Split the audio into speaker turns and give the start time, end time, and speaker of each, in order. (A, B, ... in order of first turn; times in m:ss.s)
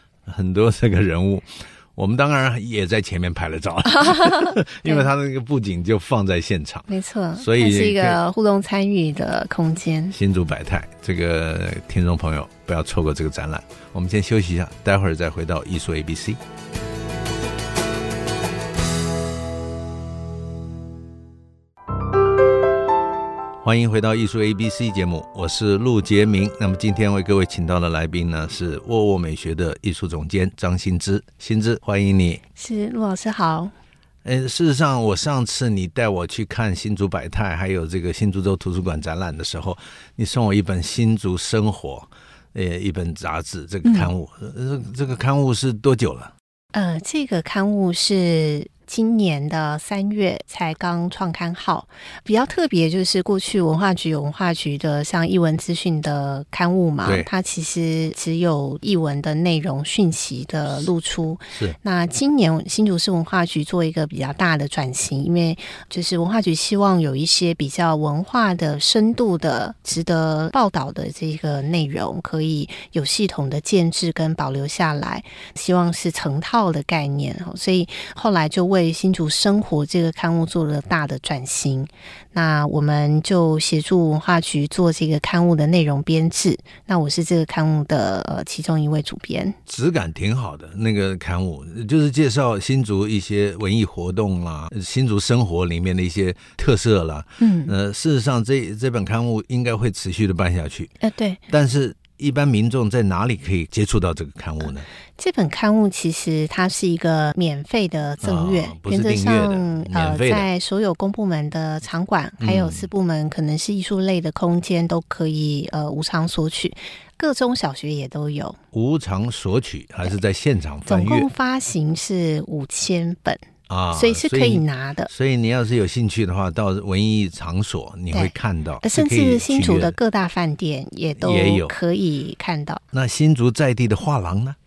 0:00.3-0:08.2 A
0:03.9-0:05.1 B
0:06.9-0:10.2 B
0:10.1-0:16.4 A
0:23.6-0:32.4 A
0:32.6-0:33.7 B
0:34.2-0:46.3 A
0:43.8-0:44.1 B
0:46.7-1:29.6 B
1:29.7-1:41.0 A
1:37.4-1:37.7 B
1:41.0-1:41.4 B
1:41.5-1:44.9 A
1:45.2-1:58.6 B
1:48.2-1:50.5 A
1:52.4-1:52.9 A
1:58.7-2:01.3 A
2:00.9-2:05.1 B
2:03.7-2:10.0 A
2:08.1-2:12.8 B
2:11.2-2:11.8 A
2:12.9-2:14.6 A